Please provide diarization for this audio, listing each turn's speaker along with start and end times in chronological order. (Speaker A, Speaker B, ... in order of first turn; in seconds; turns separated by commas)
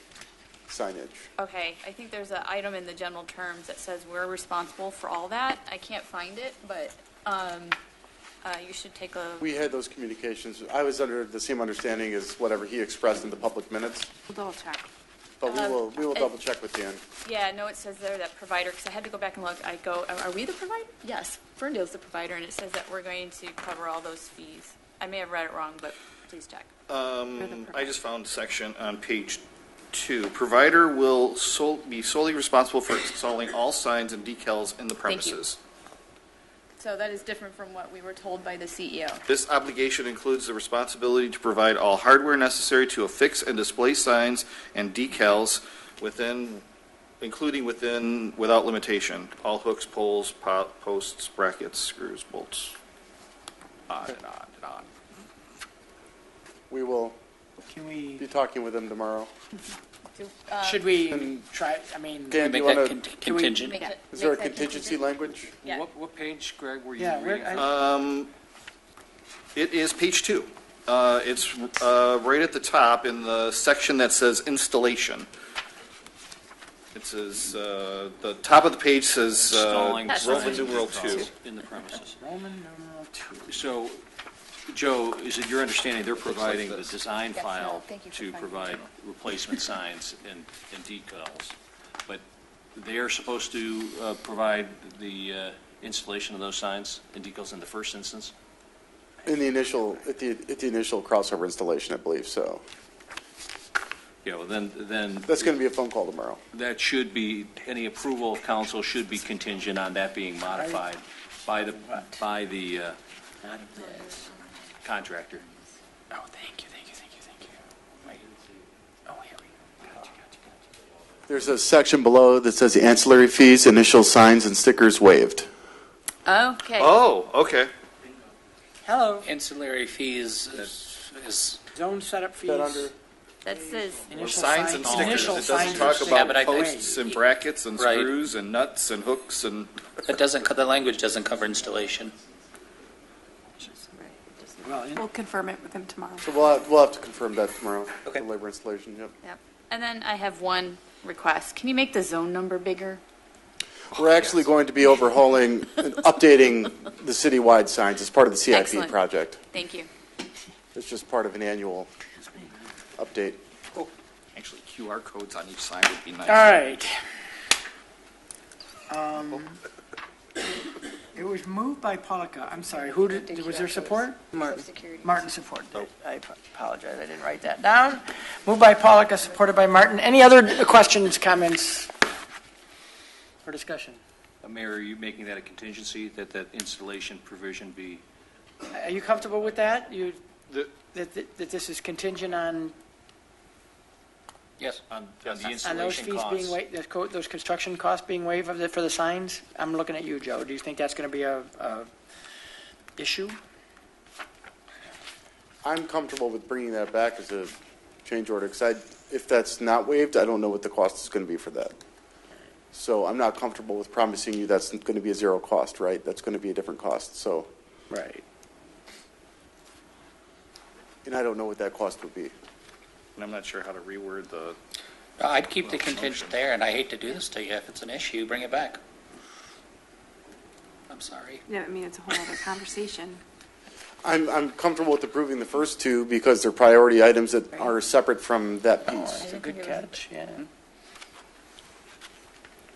Speaker A: 0.7-1.3, Speaker B: 1.4-7.8, Speaker B: 8.4-9.5, Speaker A: 9.4-14.1, Speaker C: 14.3-14.8, Speaker A: 15.4-17.0, Speaker B: 15.4-16.3, Speaker B: 17.2-26.7, Speaker D: 26.9-35.6, Speaker C: 27.4-27.9, Speaker B: 35.0-35.4, Speaker B: 36.8-39.2, Speaker D: 39.3-46.6, Speaker D: 47.2-52.7, Speaker D: 53.9-54.9, Speaker A: 56.7-57.2, Speaker E: 57.7-58.2, Speaker A: 58.2-59.3, Speaker B: 60.1-60.9, Speaker E: 60.6-62.4, Speaker A: 61.1-61.4, Speaker A: 62.3-63.0, Speaker F: 62.4-63.8, Speaker E: 63.2-63.6, Speaker B: 63.6-65.0, Speaker A: 64.1-65.5, Speaker G: 65.6-67.8, Speaker E: 67.0-67.7, Speaker D: 67.5-68.3, Speaker D: 69.5-75.3, Speaker D: 76.9-81.3, Speaker G: 79.3-82.2, Speaker E: 82.2-83.6, Speaker G: 83.5-84.0, Speaker G: 84.7-91.5, Speaker D: 86.2-86.9, Speaker B: 87.3-88.8, Speaker G: 92.8-98.3, Speaker A: 99.2-102.6, Speaker G: 104.2-105.5, Speaker A: 105.3-106.4, Speaker G: 106.5-113.0, Speaker E: 110.5-110.8, Speaker E: 111.8-112.2, Speaker E: 113.4-114.3, Speaker G: 114.8-115.4, Speaker E: 116.1-117.5, Speaker E: 119.1-120.3, Speaker A: 121.3-125.5, Speaker B: 126.2-127.0, Speaker D: 126.8-127.7, Speaker E: 128.8-129.3, Speaker F: 129.2-131.6, Speaker E: 131.7-132.9, Speaker A: 132.4-132.9, Speaker B: 133.4-134.1, Speaker E: 134.1-137.0, Speaker D: 134.2-140.0, Speaker F: 134.8-137.1, Speaker F: 137.8-138.1, Speaker F: 140.0-142.1, Speaker E: 144.6-145.0, Speaker C: 144.9-146.3, Speaker A: 146.2-149.1, Speaker B: 149.2-153.0, Speaker A: 153.9-159.4, Speaker B: 158.5-159.0, Speaker B: 159.5-159.9, Speaker A: 160.7-161.9, Speaker A: 163.0-163.4, Speaker D: 163.8-166.7, Speaker E: 166.2-166.9, Speaker E: 168.9-169.6, Speaker E: 171.1-181.9, Speaker B: 172.8-175.3, Speaker E: 183.4-184.0, Speaker G: 184.4-188.0, Speaker E: 188.7-192.7, Speaker G: 194.9-196.6, Speaker D: 195.2-195.5, Speaker F: 195.3-196.0, Speaker E: 195.6-201.9, Speaker E: 203.0-203.4, Speaker A: 205.6-207.5, Speaker A: 208.0-211.7, Speaker A: 212.7-217.5, Speaker E: 217.9-218.2, Speaker A: 221.0-222.3, Speaker D: 223.2-224.6, Speaker F: 225.2-228.8, Speaker D: 225.5-226.4, Speaker F: 230.9-231.4, Speaker C: 231.5-233.2, Speaker A: 234.0-239.3, Speaker E: 238.8-240.4, Speaker F: 239.3-239.9